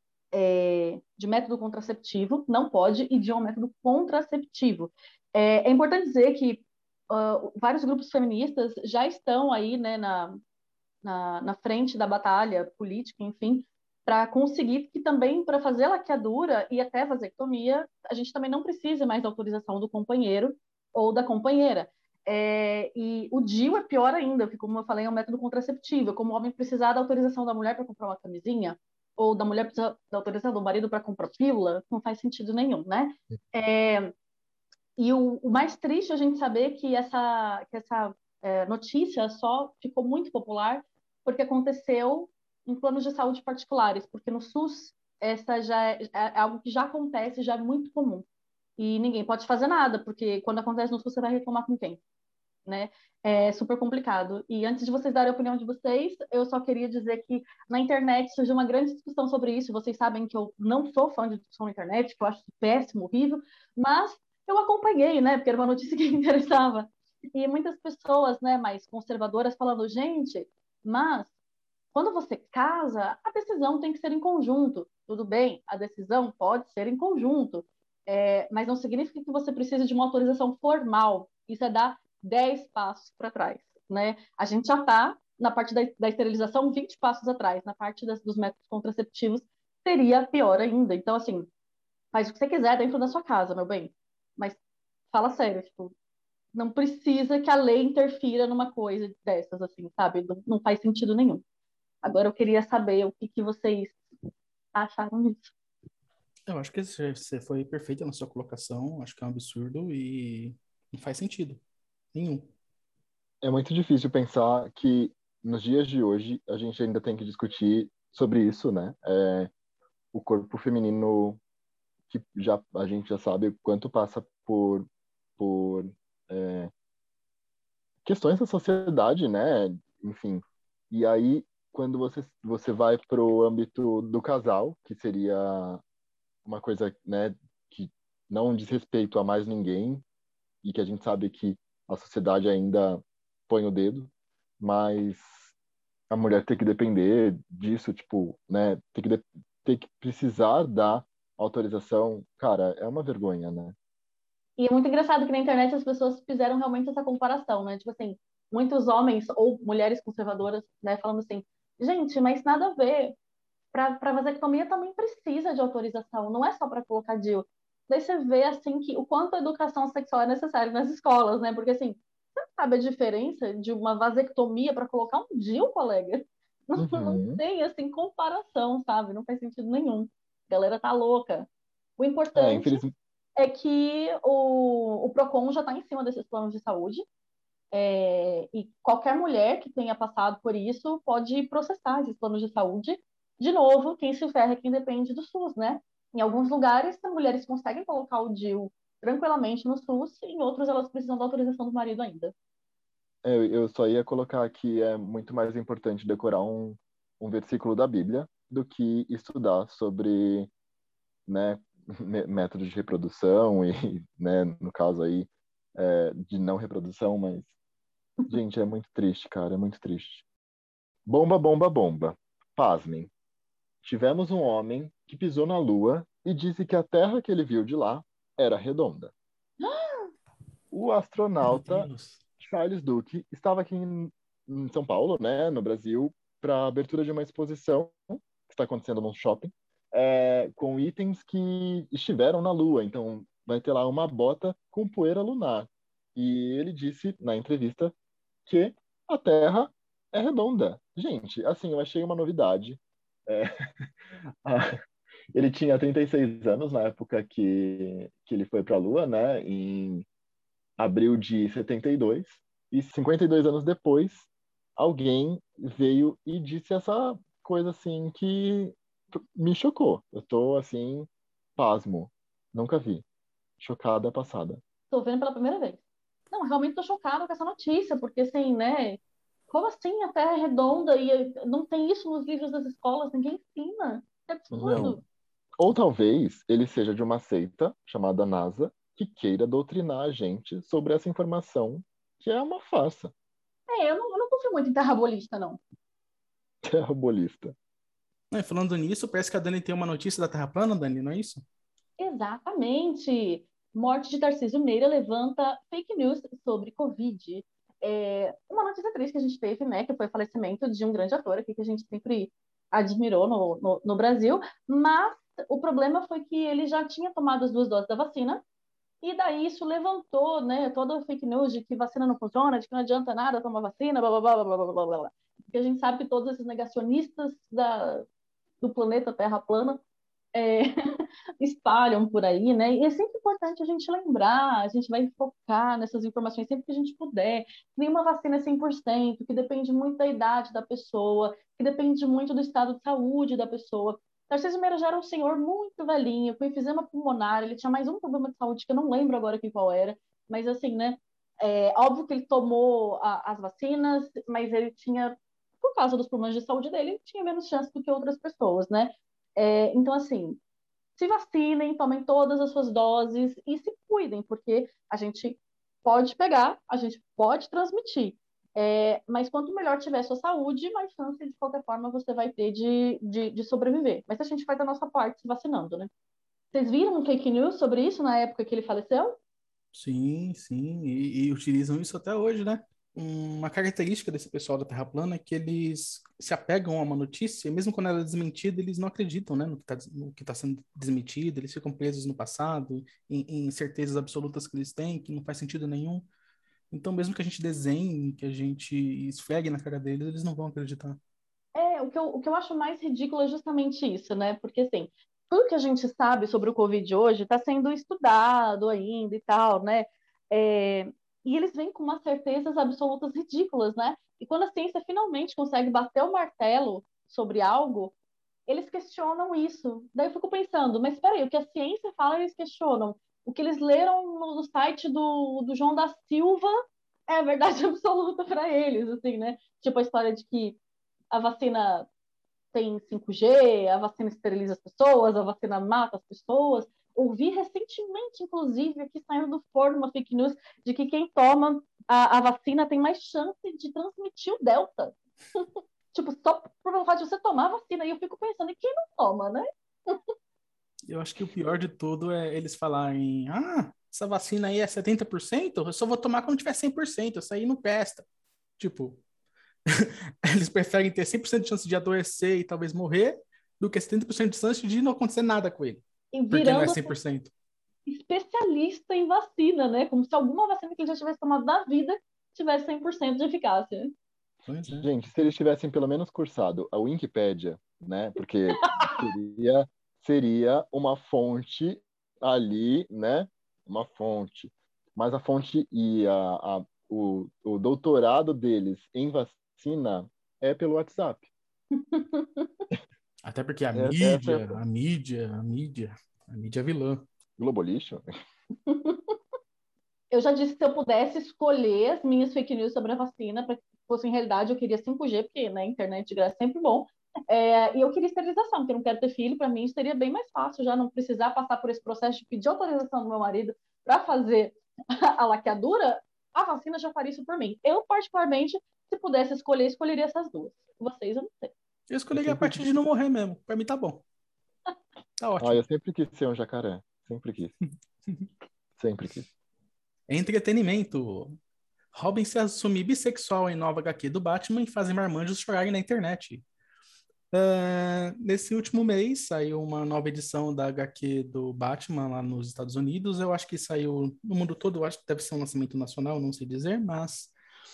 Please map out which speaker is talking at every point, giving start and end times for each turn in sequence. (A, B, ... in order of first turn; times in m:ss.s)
0:00.3-0:10.4 A
0:11.0-0:34.1 A
0:35.0-0:48.3 A
0:48.8-0:52.0 A
0:52.7-1:11.3 A
1:11.9-1:31.5 A
1:32.1-1:34.6 A
1:35.1-1:35.9 A
1:36.5-1:41.4 A
1:42.0-1:44.0 A
1:44.8-1:45.5 A
1:46.5-1:51.6 B
1:52.1-1:52.5 B
1:53.4-1:59.5 C
2:00.1-2:01.4 C
2:02.1-2:06.7 C
2:08.0-2:15.8 C
2:16.5-2:20.0 C
2:20.6-2:25.5 C
2:26.1-2:33.8 C
2:34.6-2:43.2 A
2:43.7-3:02.8 A
2:56.8-2:57.4 C
3:02.4-3:02.9 C
3:03.4-3:07.0 A
3:07.7-3:22.3 A
3:23.2-3:30.5 C
3:31.3-3:37.5 C
3:38.3-3:40.2 C
3:41.1-3:43.1 C
3:43.8-3:49.1 C
3:49.6-3:50.1 A
3:50.7-4:07.9 C
3:51.4-3:52.2 B
4:08.5-4:13.5 C
4:14.4-4:14.7 C
4:15.3-4:20.1 C
4:20.8-4:33.0 C
4:33.6-4:34.6 C
4:34.9-4:45.0 A
4:44.5-4:45.0 C
4:45.6-4:53.1 C
4:53.7-4:55.6 A
4:56.6-4:57.5 C
4:58.3-5:01.4 B
5:02.0-5:18.4 A
5:19.0-5:28.0 A
5:28.6-5:29.8 A
5:30.4-5:30.7 A
5:31.4-6:00.4 A
6:01.0-6:15.9 A
6:16.5-6:19.2 A
6:19.7-6:36.1 B
6:36.7-6:41.0 B
6:41.6-6:58.0 A
6:58.5-7:06.6 A
7:07.1-7:10.6 A
7:11.1-7:11.9 A
7:12.5-7:30.0 A
7:30.9-7:38.1 B
7:38.6-7:39.0 B
7:39.7-7:47.3 B
7:46.1-7:46.9 A
7:47.9-7:53.9 A
7:54.5-7:54.9 B
7:54.7-8:11.3 C
8:11.8-8:12.5 A
8:13.2-8:17.0 B
8:13.8-8:14.6 C
8:17.4-8:18.0 C
8:18.7-8:19.1 A
8:20.1-8:41.5 A
8:41.9-8:44.0 B
8:42.1-8:42.7 C
8:45.2-8:45.6 B
8:45.4-8:47.5 C
8:48.8-8:49.3 C
8:50.1-8:51.4 B
8:51.9-8:56.4 B
8:57.3-9:07.3 B